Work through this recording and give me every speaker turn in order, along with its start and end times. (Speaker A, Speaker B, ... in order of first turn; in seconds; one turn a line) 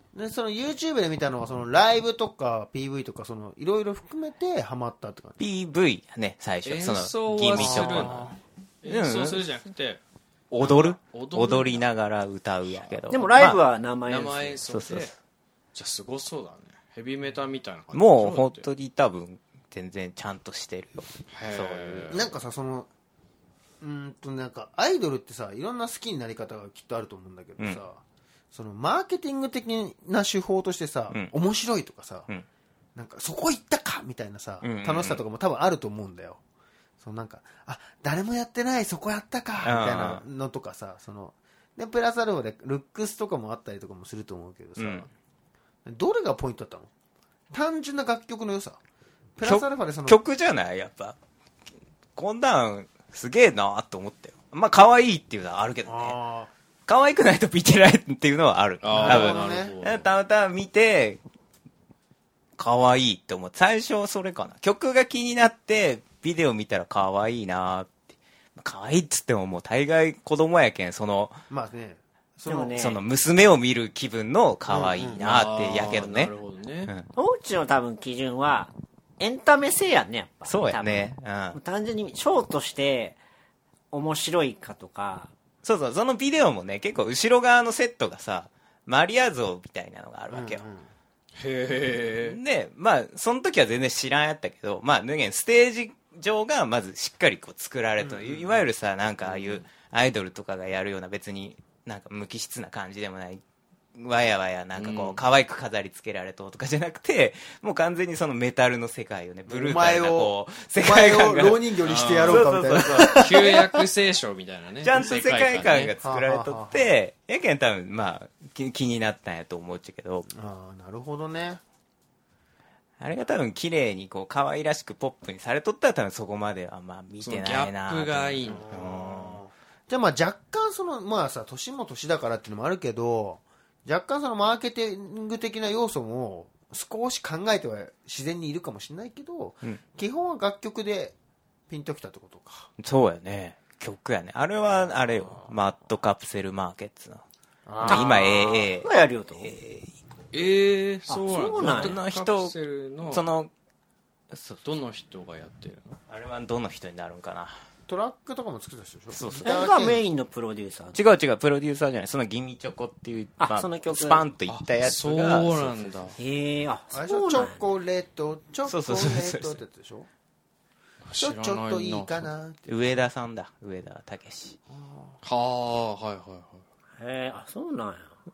Speaker A: 0.1-5.4
Speaker B: 5.4-8.3
Speaker C: 6.6-8.3
Speaker A: 7.6-8.4
Speaker C: 8.8-10.0
Speaker B: 8.9-9.4
Speaker B: 10.5-13.6
Speaker C: 10.6-11.9
Speaker C: 12.7-13.0
Speaker D: 13.1-14.7
Speaker C: 14.1-15.1
Speaker B: 14.7-15.1
Speaker C: 15.8-18.7
Speaker B: 17.9-22.2
Speaker C: 21.3-22.3
Speaker A: 22.1-22.9
Speaker A: 23.8-28.0
Speaker A: 28.5-32.3
Speaker A: 33.0-36.4
Speaker B: 34.6-35.2
Speaker A: 37.0-45.1
Speaker B: 39.6-40.2
Speaker B: 44.8-45.1
Speaker A: 45.9-46.9
Speaker A: 47.5-48.8
Speaker A: 49.4-50.2
Speaker B: 49.4-51.2
Speaker B: 52.1-56.2
Speaker A: 55.9-56.5
Speaker B: 56.9-61.2
Speaker C: 58.8-60.1
Speaker A: 58.9-59.8
Speaker B: 62.6-71.4
Speaker A: 71.5-72.8
Speaker D: 72.5-73.0
Speaker B: 72.8-76.3
Speaker A: 74.7-75.2
Speaker C: 75.2-76.9
Speaker D: 77.2-83.2
Speaker B: 80.5-81.6
Speaker D: 83.9-85.3
Speaker B: 85.6-90.7
Speaker A: 90.3-90.9
Speaker C: 91.4-92.4
Speaker B: 92.1-103.4
Speaker A: 98.0-98.6
Speaker B: 103.9-113.5
Speaker C: 104.8-105.2
Speaker A: 109.5-113.8
Speaker C: 111.8-115.9
Speaker B: 114.8-120.3
Speaker A: 116.0-116.9
Speaker A: 120.3-121.6
Speaker B: 123.0-129.4
Speaker C: 127.2-128.7
Speaker A: 128.5-141.2
Speaker A: 141.7-142.7
Speaker B: 142.8-147.2
Speaker A: 147.7-148.3
Speaker D: 147.8-149.6
Speaker B: 147.8-149.9
Speaker C: 150.3-153.2
Speaker D: 151.1-152.0
Speaker B: 151.6-152.6
Speaker B: 153.1-153.5
Speaker B: 154.3-154.6
Speaker C: 154.6-156.0
Speaker B: 156.1-157.6
Speaker A: 157.9-160.1
Speaker B: 159.1-159.6
Speaker D: 159.4-161.0
Speaker B: 160.9-166.1
Speaker D: 163.4-164.2
Speaker C: 164.5-166.1
Speaker D: 166.2-167.6
Speaker A: 166.9-170.1
Speaker B: 168.6-169.6
Speaker C: 171.1-172.3
Speaker A: 171.2-172.7
Speaker B: 172.7-174.6
Speaker A: 174.7-175.2
Speaker C: 175.2-176.6
Speaker D: 177.0-178.2